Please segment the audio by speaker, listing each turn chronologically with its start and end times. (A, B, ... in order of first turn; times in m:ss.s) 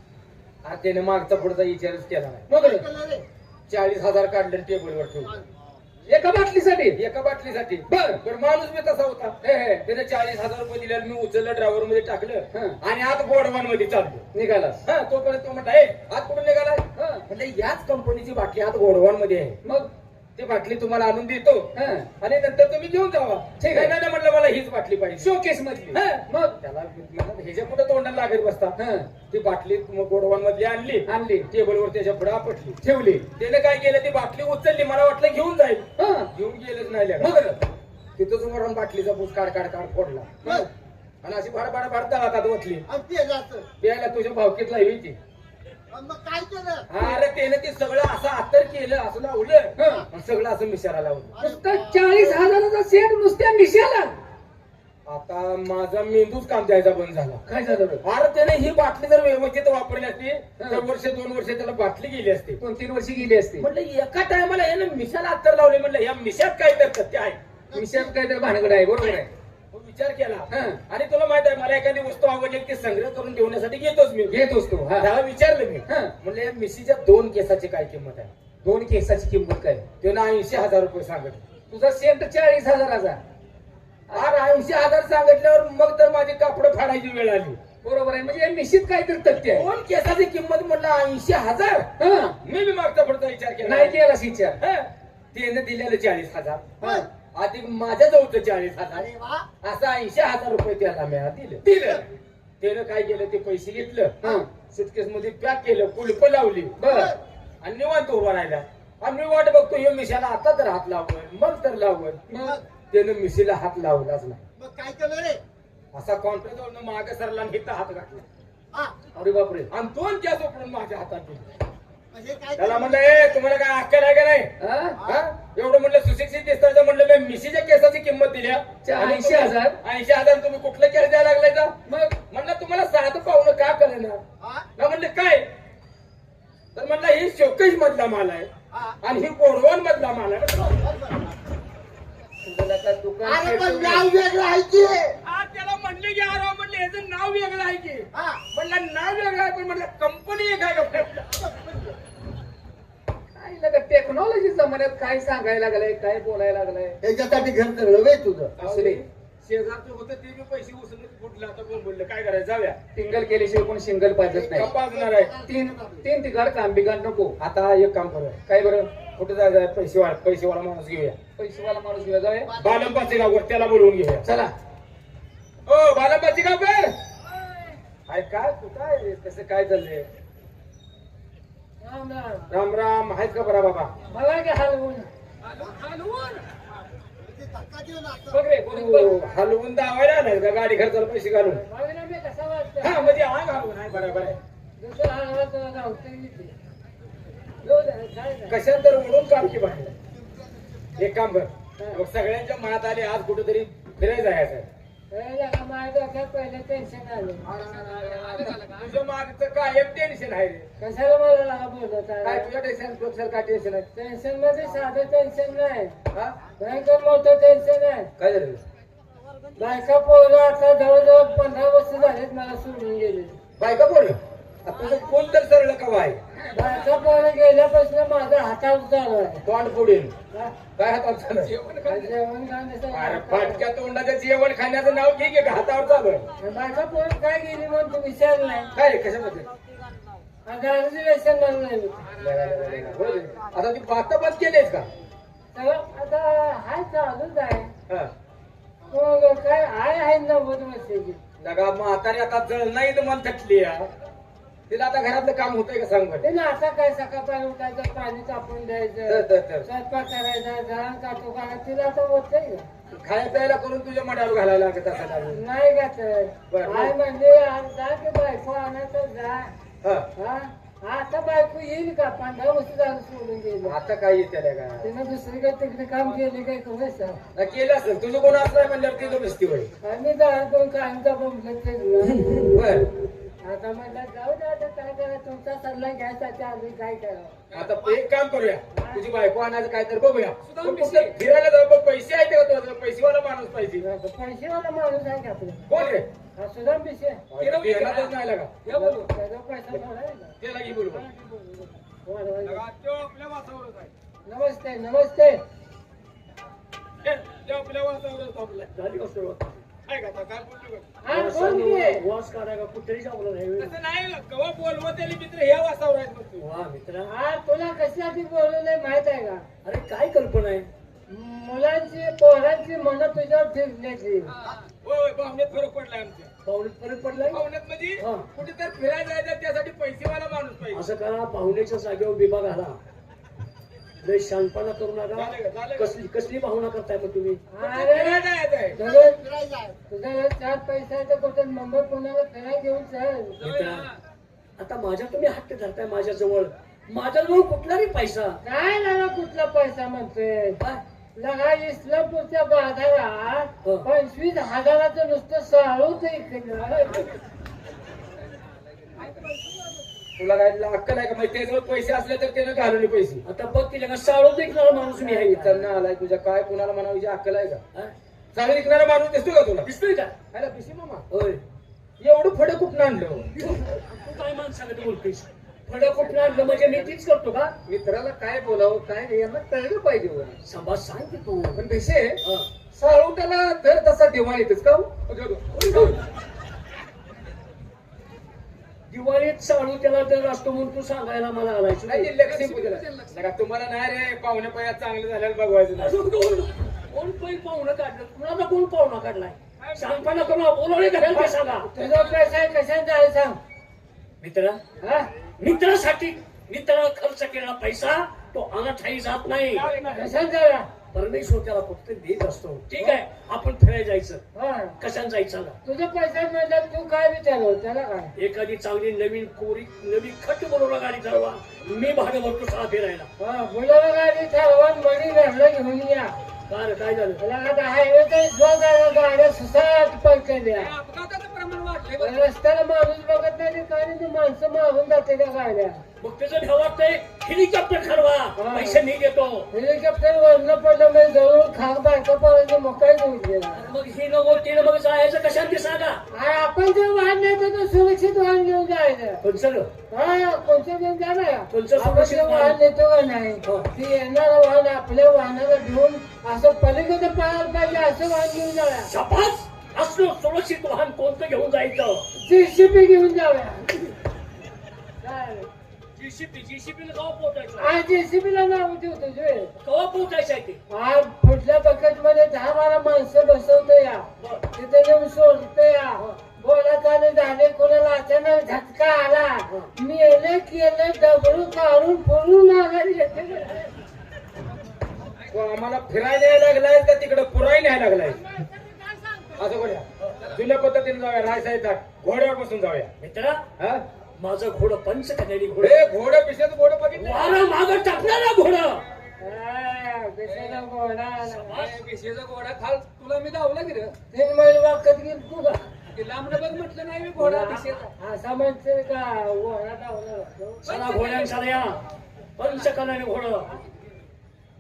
0:00.6-0:02.4 A
0:02.5-0:02.9 B
0:02.7-0:03.2 C
0:03.7-0:05.4 A
0:06.1-0:07.0 B
0:06.9-0:14.2 A
0:07.9-0:08.2 B
0:09.4-0:09.8 B
0:12.5-0:12.8 B
0:14.3-0:14.8 B
0:14.8-0:19.6 A
0:17.0-0:17.2 B
0:19.6-0:19.9 B
0:20.4-0:25.3 A
0:21.7-0:22.1 B
0:23.6-0:23.9 B
0:25.2-0:26.6 B
0:25.9-0:32.8 A
0:28.8-0:29.1 B
0:31.0-0:31.5 B
0:32.8-0:33.3 B
0:33.4-0:37.4 A
0:36.0-0:36.3 B
0:37.2-0:37.6 B
0:38.2-0:40.6 A
0:41.2-0:42.9 A
0:42.9-0:43.7 C
0:43.8-0:45.2 A
0:45.9-0:46.9 C
0:46.9-0:51.4 A
0:47.0-0:47.2 B
0:49.8-0:50.0 B
0:51.4-0:54.1 B
0:51.5-0:52.2 C
0:55.0-0:57.4 A
0:57.4-0:58.0 B
0:58.0-1:02.6 A
1:00.6-1:00.8 B
1:02.6-1:03.7 B
1:03.6-1:07.4 A
1:07.7-1:09.3 B
1:09.7-1:14.3 A
1:10.5-1:10.8 B
1:14.3-1:15.1 B
1:15.0-1:18.3 A
1:15.9-1:16.1 B
1:18.6-1:19.8 B
1:20.0-1:21.4 A
1:21.7-1:23.2 B
1:24.1-1:27.6 A
1:27.8-1:29.7 B
1:29.4-1:33.9 A
1:32.0-1:32.4 B
1:33.6-1:34.6 B
1:34.6-1:42.0 A
1:39.0-1:39.4 C
1:41.6-1:42.0 B
1:42.6-1:46.8 A
1:44.2-1:44.5 B
1:46.8-1:47.2 B
1:47.6-1:54.4 A
1:52.3-1:52.6 B
1:54.6-1:55.4 C
1:55.9-1:58.2 A
1:59.1-1:59.7 B
1:59.7-2:01.5 A
2:02.1-2:03.1 C
2:02.5-2:14.2 A
2:04.6-2:05.0 B
2:08.8-2:09.8 B
2:11.8-2:12.2 B
2:14.8-2:15.4 A
2:16.7-2:18.5 A
2:19.0-2:21.0 A
2:22.4-2:24.2 B
2:23.2-2:25.2 C
2:25.2-2:31.5 A
2:33.4-2:37.0 B
2:37.0-2:38.5 C
2:38.6-2:39.0 B
2:38.6-2:42.8 A
2:42.9-2:44.7 B
2:44.5-2:45.4 A
2:45.4-2:47.4 B
2:47.4-2:48.4 A
2:48.5-2:48.9 B
2:49.0-2:51.2 A
2:51.4-2:52.5 B
2:52.6-2:54.2 A
2:54.2-2:54.5 B
2:55.6-2:56.9 A
2:58.1-3:00.1 A
3:01.8-3:02.5 D
3:02.5-3:03.9 A
3:04.1-3:05.1 D
3:05.6-3:06.4 B
3:07.2-3:08.3 C
3:08.3-3:09.1 B
3:08.7-3:11.6 A
3:11.5-3:13.2 D
3:12.8-3:14.4 A
3:14.8-3:16.5 D
3:17.6-3:18.6 D
3:18.5-3:19.9 A
3:21.0-3:24.7 A
3:25.1-3:27.5 D
3:27.4-3:30.7 A
3:28.4-3:28.7 B
3:30.8-3:32.5 D
3:32.2-3:33.9 A
3:33.9-3:36.0 D
3:36.6-3:38.1 D
3:38.2-3:38.6 A
3:39.6-3:43.4 D
3:43.6-3:46.2 A
3:46.5-3:49.4 D
3:49.4-3:50.1 A
3:50.3-3:50.6 D
3:50.8-3:51.5 A
3:51.5-3:52.1 B
3:51.8-3:53.6 D
3:52.9-3:56.3 A
3:56.4-3:58.8 D
3:58.7-3:59.5 A
4:00.4-4:02.1 D
4:02.1-4:04.9 A
4:05.5-4:07.7 D
4:08.9-4:11.2 D
4:11.4-4:13.9 A
4:14.7-4:16.2 A
4:16.2-4:22.7 D
4:19.1-4:19.7 A
4:22.9-4:25.4 A
4:25.3-4:29.5 D
4:26.5-4:26.9 A
4:29.8-4:30.1 A
4:30.1-4:33.8 D
4:33.6-4:34.9 A
4:34.8-4:37.2 D
4:37.3-4:39.7 A
4:39.8-4:42.5 D
4:42.3-4:42.9 A
4:43.4-4:47.4 D
4:47.5-4:53.8 A
4:48.7-4:49.0 D
4:50.4-4:51.1 B
4:53.8-4:57.2 D
4:55.7-4:56.1 A
4:57.3-4:58.6 A
4:57.4-4:58.0 E
4:57.6-4:58.1 B
4:58.6-4:59.1 B
4:58.7-5:00.3 D
5:00.4-5:01.0 A
5:00.8-5:02.6 D
5:02.4-5:03.9 A
5:04.2-5:05.4 D
5:07.0-5:08.7 A
5:08.7-5:09.6 E
5:09.9-5:11.0 A
5:11.0-5:12.1 D
5:11.1-5:13.7 E
5:13.6-5:16.4 A
5:16.4-5:17.1 E
5:17.0-5:19.4 D
5:19.6-5:20.7 E
5:21.1-5:24.3 D
5:24.7-5:26.3 A
5:26.4-5:27.4 E
5:27.1-5:30.8 A
5:28.0-5:28.3 E
5:30.7-5:32.8 E
5:34.0-5:37.4 E
5:35.1-5:35.9 A
5:37.5-5:39.2 D
5:37.6-5:38.8 A
5:39.3-5:39.8 C
5:39.9-5:43.4 D
5:43.4-5:43.9 E
5:44.6-5:48.4 E
5:48.4-5:50.6 D
5:51.2-5:57.1 D
6:00.2-6:03.2 A
6:03.2-6:05.6 E
6:05.0-6:07.6 A
6:08.3-6:09.7 A
6:09.6-6:10.1 E
6:10.3-6:11.0 A
6:11.1-6:11.4 E
6:12.0-6:13.3 A
6:13.4-6:17.5 E
6:15.8-6:16.9 B
6:17.6-6:20.4 B
6:20.4-6:21.6 E
6:21.5-6:22.2 B
6:22.2-6:22.5 E
6:22.7-6:25.9 B
6:25.5-6:26.0 E
6:28.9-6:32.1 E
6:31.8-6:36.0 A
6:32.3-6:33.1 B
6:35.8-6:41.7 E
6:39.6-6:40.0 A
6:41.1-6:42.1 A
6:41.2-6:43.4 D
6:44.2-6:44.6 E
6:44.8-6:45.1 D
6:45.4-6:49.7 E
6:49.5-6:50.1 A
6:49.9-6:50.7 D
6:50.9-6:54.2 E
6:54.3-6:54.8 D
6:54.8-6:55.6 E
6:55.6-6:58.1 D
6:58.2-7:03.1 E
7:03.2-7:06.2 D
7:06.5-7:07.2 E
7:07.2-7:10.7 D
7:10.8-7:11.9 A
7:12.0-7:15.8 D
7:16.0-7:19.5 E
7:18.3-7:18.8 D
7:19.5-7:23.7 D
7:23.5-7:26.0 E
7:26.1-7:29.2 D
7:29.2-7:29.7 E
7:29.9-7:38.9 D
7:31.5-7:32.6 E
7:33.4-7:33.7 E
7:38.9-7:42.0 E
7:42.1-7:43.8 D
7:45.0-7:45.5 D
7:46.0-7:47.8 E
7:47.6-7:49.5 D
7:49.6-7:50.6 E
7:50.7-8:03.7 D
7:54.2-7:54.4 E
7:59.5-7:59.7 E
8:05.3-8:08.2 A
8:09.4-8:12.9 A
8:13.0-8:13.4 E
8:13.6-8:13.8 A
8:14.2-8:15.8 E
8:15.6-8:17.5 A
8:17.0-8:18.8 E
8:19.2-8:21.7 D
8:20.3-8:20.6 B
8:21.2-8:21.7 E
8:21.5-8:23.9 B
8:24.1-8:25.6 D
8:25.9-8:27.9 B
8:27.2-8:30.6 D
8:30.6-8:31.8 E
8:30.6-8:31.3 B
8:32.4-8:33.6 E